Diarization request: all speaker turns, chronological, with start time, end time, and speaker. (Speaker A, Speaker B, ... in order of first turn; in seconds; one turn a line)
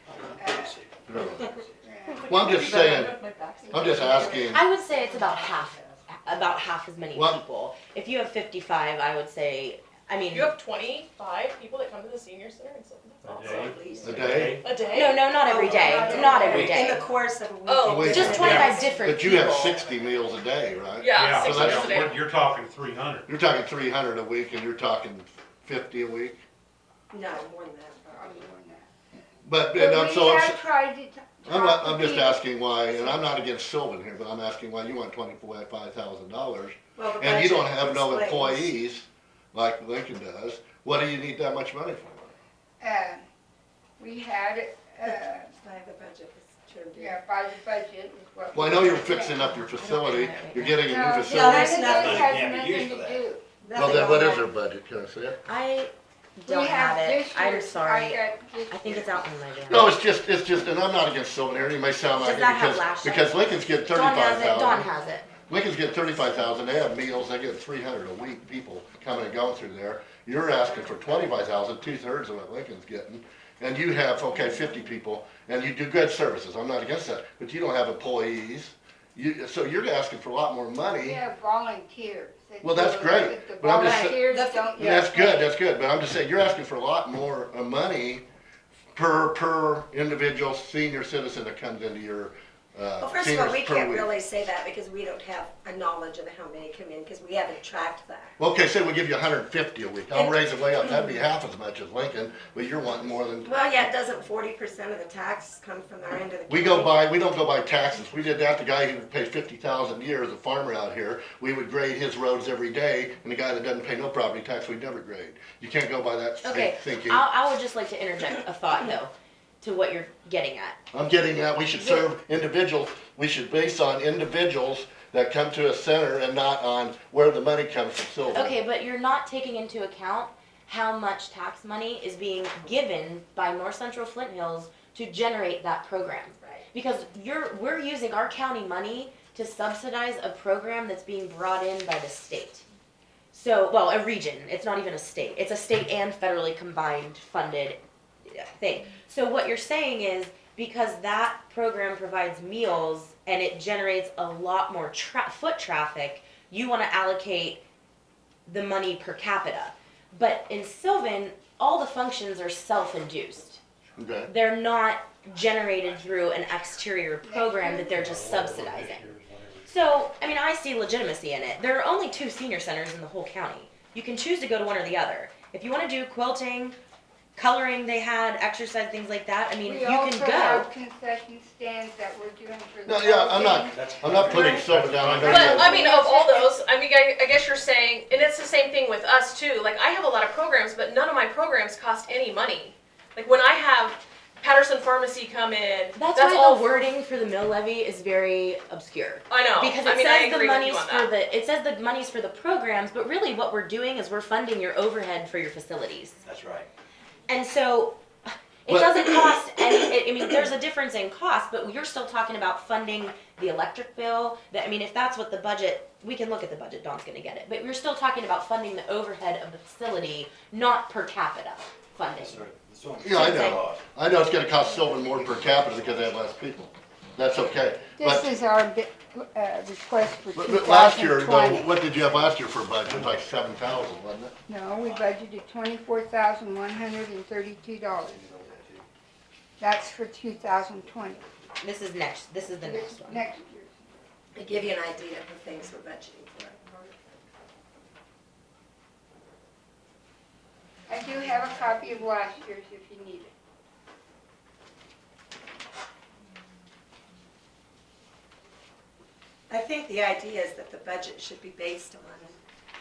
Speaker A: 0.1-1.3
Speaker B: 0.3-2.9
Speaker C: 1.1-1.5
Speaker C: 2.2-3.1
Speaker D: 3.0-6.0
Speaker B: 3.6-4.5
Speaker C: 3.7-4.7
Speaker E: 4.5-10.5
Speaker C: 7.1-7.4
Speaker F: 10.3-15.2
Speaker G: 13.2-14.7
Speaker D: 13.3-14.5
Speaker C: 14.0-14.6
Speaker E: 14.9-17.0
Speaker D: 15.4-19.6
Speaker A: 16.1-16.4
Speaker F: 17.6-19.1
Speaker C: 17.8-22.1
Speaker E: 18.0-19.8
Speaker G: 18.2-18.8
Speaker F: 21.0-22.2
Speaker G: 21.1-23.2
Speaker C: 23.3-26.4
Speaker D: 27.1-28.3
Speaker B: 28.1-28.9
Speaker C: 29.4-30.6
Speaker B: 29.7-32.4
Speaker C: 31.5-42.3
Speaker D: 37.0-38.7
Speaker B: 42.8-43.2
Speaker B: 44.0-45.5
Speaker D: 45.1-47.2
Speaker B: 46.9-49.4
Speaker C: 48.5-52.3
Speaker E: 49.1-51.0
Speaker B: 50.8-53.4
Speaker D: 51.2-52.4
Speaker A: 51.8-53.2
Speaker D: 53.6-54.5
Speaker C: 53.7-55.4
Speaker E: 55.4-60.0
Speaker B: 56.5-59.3
Speaker C: 59.7-64.9
Speaker E: 62.2-65.3
Speaker C: 65.5-81.2
Speaker B: 80.9-85.5
Speaker C: 82.6-84.2
Speaker D: 83.7-85.2
Speaker C: 84.8-88.2
Speaker C: 88.9-94.1
Speaker D: 93.0-98.3
Speaker C: 98.4-103.5
Speaker D: 103.4-107.0
Speaker C: 106.5-117.2
Speaker E: 116.4-120.8
Speaker C: 120.9-128.5
Speaker E: 121.8-122.1
Speaker E: 128.3-142.6
Speaker E: 143.3-157.6
Speaker E: 158.5-163.6
Speaker C: 164.0-164.3
Speaker E: 164.2-169.1
Speaker B: 167.2-168.2
Speaker G: 167.9-169.9
Speaker E: 169.7-176.8
Speaker E: 177.3-180.7
Speaker B: 179.6-184.6
Speaker C: 182.8-185.8
Speaker G: 183.8-185.7
Speaker F: 185.2-196.8
Speaker E: 185.2-186.5
Speaker E: 195.9-206.2
Speaker F: 199.3-201.1
Speaker A: 206.2-206.7
Speaker E: 207.3-222.5
Speaker C: 208.7-209.1
Speaker A: 222.1-223.8
Speaker C: 223.0-228.3
Speaker E: 223.1-223.6
Speaker A: 225.1-226.2
Speaker B: 228.0-231.7
Speaker C: 230.3-234.3
Speaker B: 234.5-238.2
Speaker A: 234.7-235.1
Speaker A: 238.1-238.8
Speaker B: 239.6-241.2
Speaker E: 241.6-243.2
Speaker B: 242.6-243.8
Speaker D: 244.3-246.9
Speaker B: 250.9-253.3
Speaker D: 259.5-262.4